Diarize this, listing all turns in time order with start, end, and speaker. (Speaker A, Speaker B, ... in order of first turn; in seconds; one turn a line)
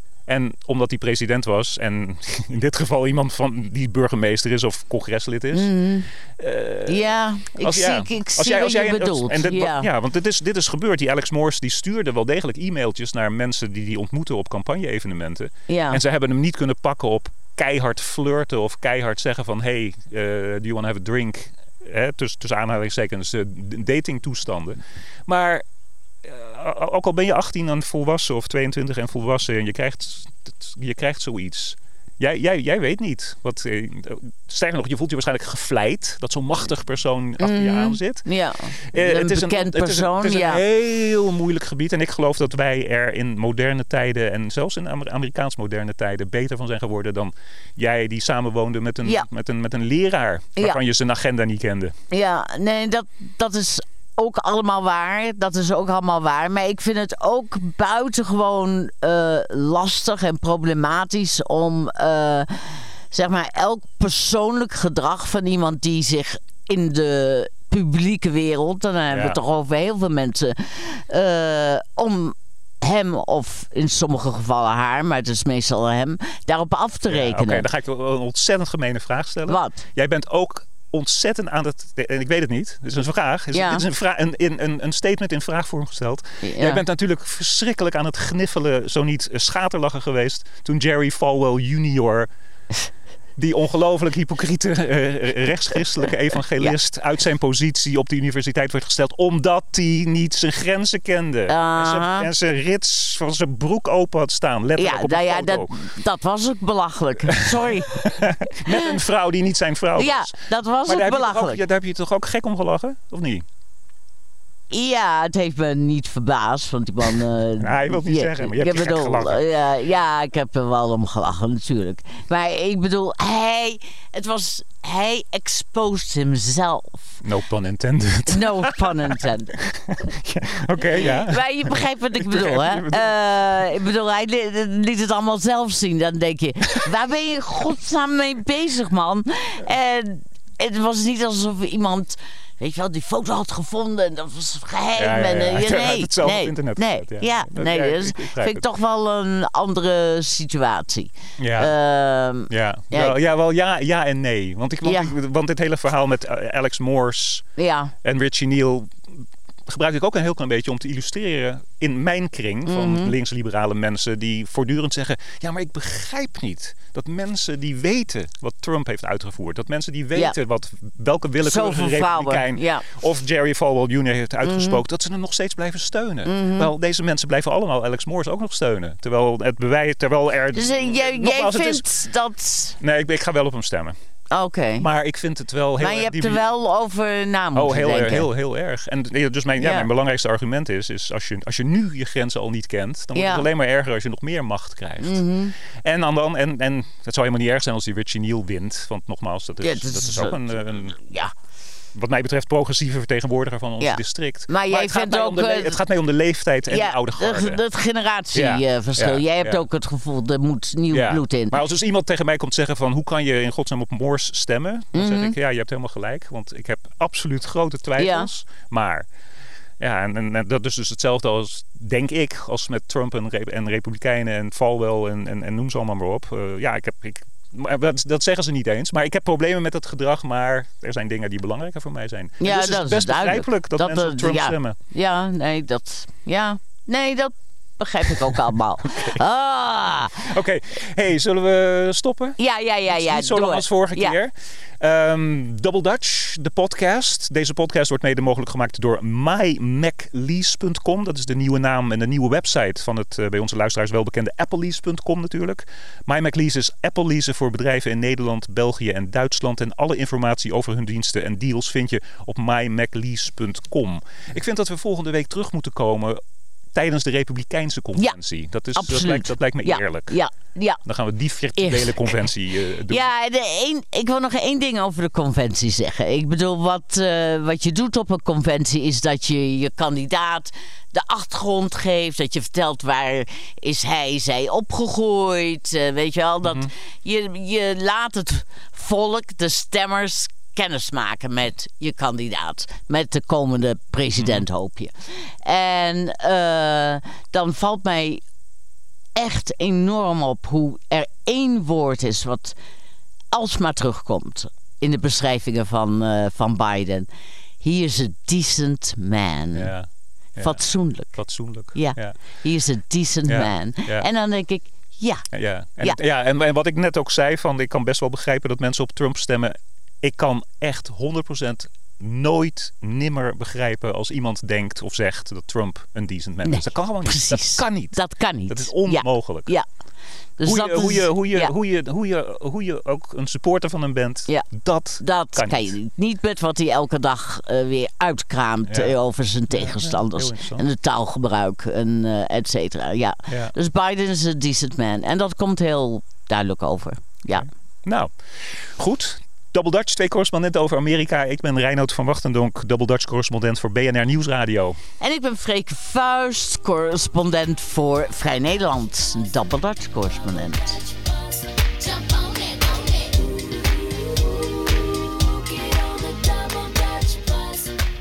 Speaker A: 0.3-5.7
Speaker B: 5.5-6.1
Speaker A: 6.4-25.6
Speaker B: 6.9-9.9
Speaker B: 15.7-16.0
Speaker A: 26.2-38.3
Speaker B: 37.4-40.6
Speaker A: 38.8-51.9
Speaker B: 52.1-77.7
Speaker A: 69.1-69.4
Speaker A: 77.1-92.3
Speaker B: 79.5-79.8
Speaker B: 83.5-83.8
Speaker B: 86.4-86.8
Speaker A: 93.4-105.8
Speaker B: 101.5-102.3
Speaker B: 104.8-109.0
Speaker A: 107.2-113.5
Speaker B: 110.0-111.6
Speaker B: 114.7-127.2
Speaker A: 117.6-119.5
Speaker A: 127.2-133.2
Speaker B: 128.3-129.6
Speaker B: 131.0-153.2
Speaker A: 145.0-148.7
Speaker A: 151.4-151.7
Speaker A: 152.5-157.5
Speaker B: 154.8-155.1
Speaker B: 157.6-157.9
Speaker A: 158.0-181.8
Speaker B: 162.7-163.1
Speaker B: 171.4-172.9
Speaker B: 174.4-174.8
Speaker B: 176.2-176.7
Speaker B: 180.5-182.8
Speaker A: 182.8-183.9
Speaker B: 184.3-184.9
Speaker A: 184.8-186.4
Speaker B: 185.8-188.3
Speaker A: 187.6-195.2
Speaker B: 189.6-189.9
Speaker B: 193.2-193.5
Speaker B: 195.0-195.6
Speaker A: 195.8-201.0
Speaker B: 199.6-201.3
Speaker A: 201.9-207.6
Speaker B: 203.8-205.8
Speaker B: 206.7-211.5
Speaker A: 208.3-209.6
Speaker A: 210.9-219.1
Speaker B: 214.9-215.3
Speaker B: 218.0-218.3
Speaker A: 219.8-234.8
Speaker B: 232.4-240.3
Speaker A: 240.2-266.2
Speaker B: 242.4-244.2
Speaker A: 266.7-270.2
Speaker B: 268.8-270.8
Speaker A: 270.8-273.1
Speaker B: 271.6-272.2
Speaker B: 272.9-298.2
Speaker A: 286.4-286.7
Speaker A: 294.2-294.4
Speaker B: 299.2-302.6
Speaker B: 303.3-307.1
Speaker B: 307.6-309.7
Speaker A: 309.5-310.6
Speaker B: 310.4-311.2
Speaker A: 311.1-312.2
Speaker B: 311.7-315.2
Speaker A: 313.3-314.1
Speaker A: 315.3-329.5
Speaker B: 326.4-329.6
Speaker B: 330.4-331.5
Speaker A: 330.4-335.8
Speaker B: 335.0-347.5
Speaker A: 338.7-339.0
Speaker A: 339.5-340.7
Speaker A: 343.3-343.5
Speaker A: 347.4-354.8
Speaker B: 355.0-363.3
Speaker B: 365.1-367.8